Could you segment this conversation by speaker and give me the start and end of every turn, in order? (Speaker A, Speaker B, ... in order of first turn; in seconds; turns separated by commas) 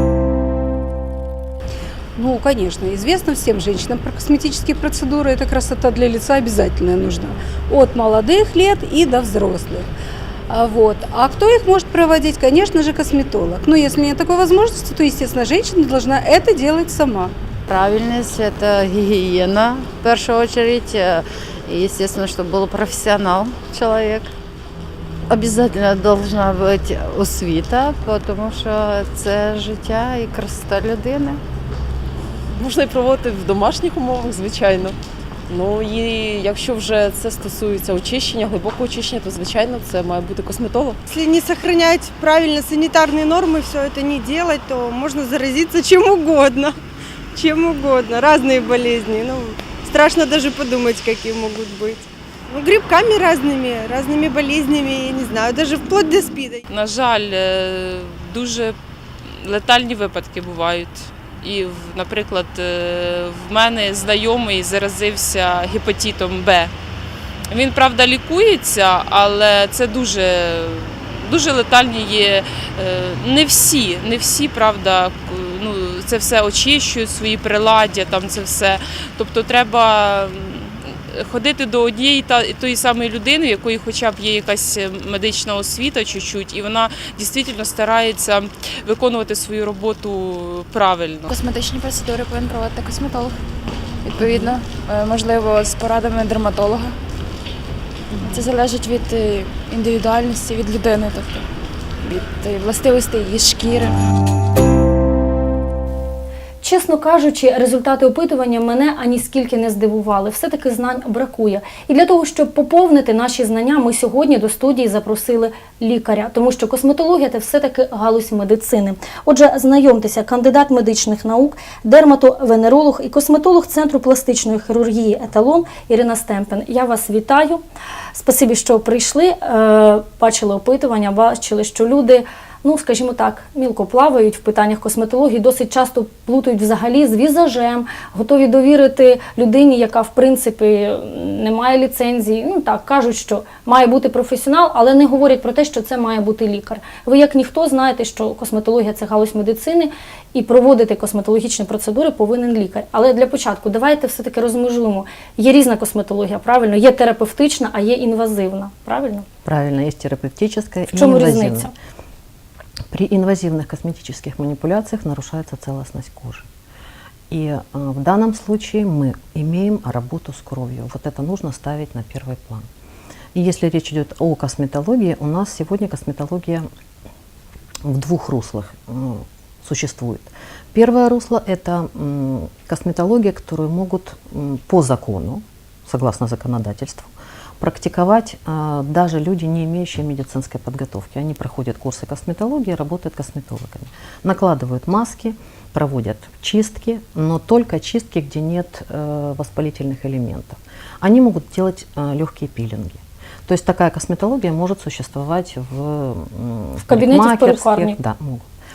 Speaker A: 2.2-9.9, Speaker A: 10.5-17.3, Speaker B: 17.7-24.3, Speaker B: 25.3-31.4, Speaker C: 32.5-35.0, Speaker C: 35.5-41.0, Speaker D: 41.1-46.8, Speaker D: 47.4-56.6, Speaker E: 56.7-66.7, Speaker E: 67.5-91.3, Speaker F: 91.3-93.4, Speaker F: 94.0-97.0, Speaker F: 98.1-101.5, Speaker F: 102.0-104.0, Speaker G: 106.6-127.6, Speaker G: 128.1-159.3, Speaker H: 159.4-161.7, Speaker G: 160.9-161.7, Speaker H: 162.9-166.5, Speaker H: 167.3-172.7, Speaker H: 173.3-176.7, Speaker H: 177.8-208.5, Speaker G: 206.9-208.0